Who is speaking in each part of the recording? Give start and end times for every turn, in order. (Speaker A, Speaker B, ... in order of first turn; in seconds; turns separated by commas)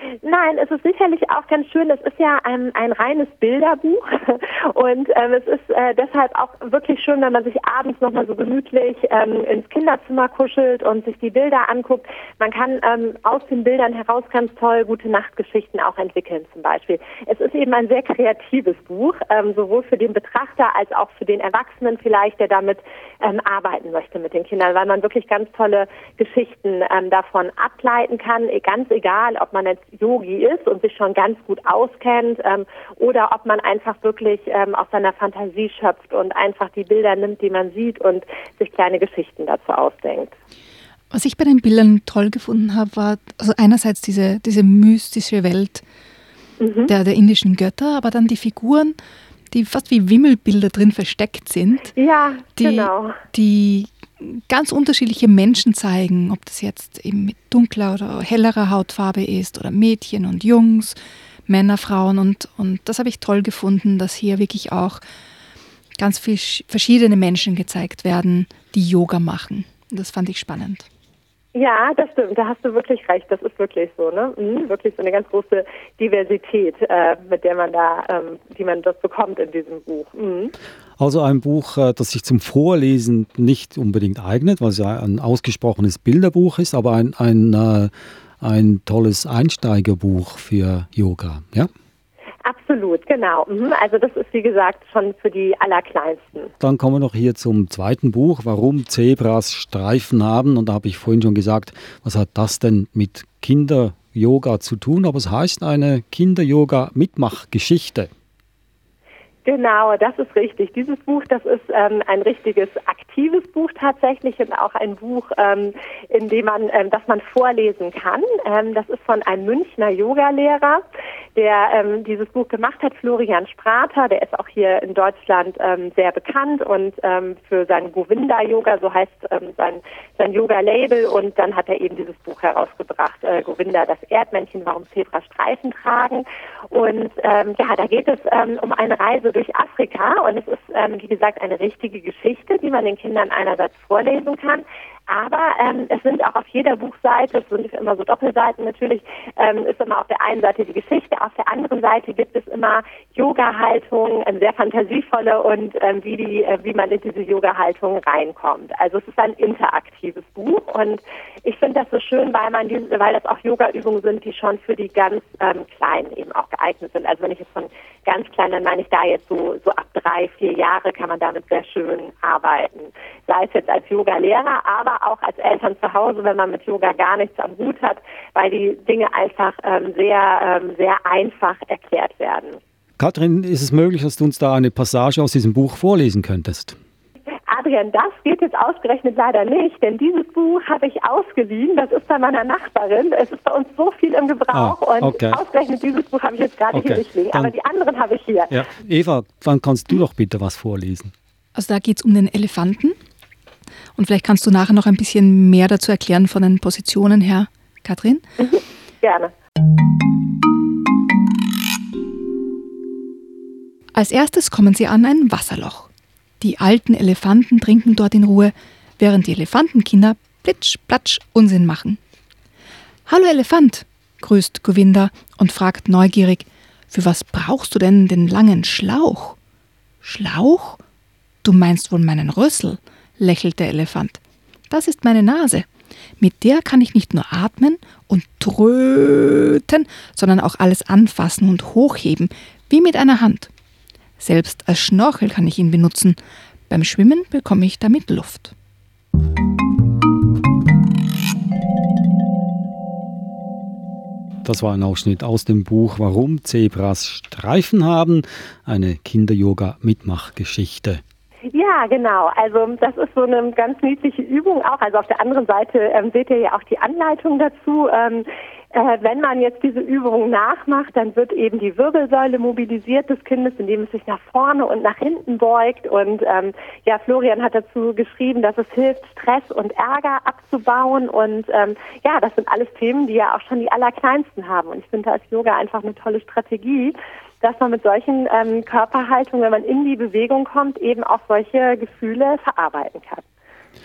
Speaker A: 0.2-40.3, Speaker B: 41.1-45.8, Speaker A: 46.6-46.9, Speaker B: 46.9-49.0, Speaker B: 49.5-51.9, Speaker A: 52.0-53.2, Speaker B: 52.6-61.0, Speaker B: 61.5-65.0, Speaker B: 66.0-70.9, Speaker A: 71.5-80.5, Speaker C: 81.0-91.7, Speaker A: 92.5-96.5, Speaker C: 96.6-108.1, Speaker A: 109.5-120.8, Speaker A: 121.4-182.6, Speaker C: 183.0-186.8, Speaker A: 187.5-198.6, Speaker C: 194.5-195.4, Speaker C: 196.7-197.5, Speaker C: 198.5-201.1, Speaker B: 201.6-203.0, Speaker B: 203.9-208.2, Speaker A: 208.4-209.3, Speaker B: 213.9-215.9, Speaker B: 216.4-222.0, Speaker B: 223.1-229.4, Speaker B: 230.0-230.8, Speaker B: 231.4-234.2, Speaker B: 234.7-235.7, Speaker B: 236.2-243.5, Speaker B: 244.2-246.2, Speaker B: 246.7-248.5, Speaker C: 254.4-261.0, Speaker A: 261.5-293.2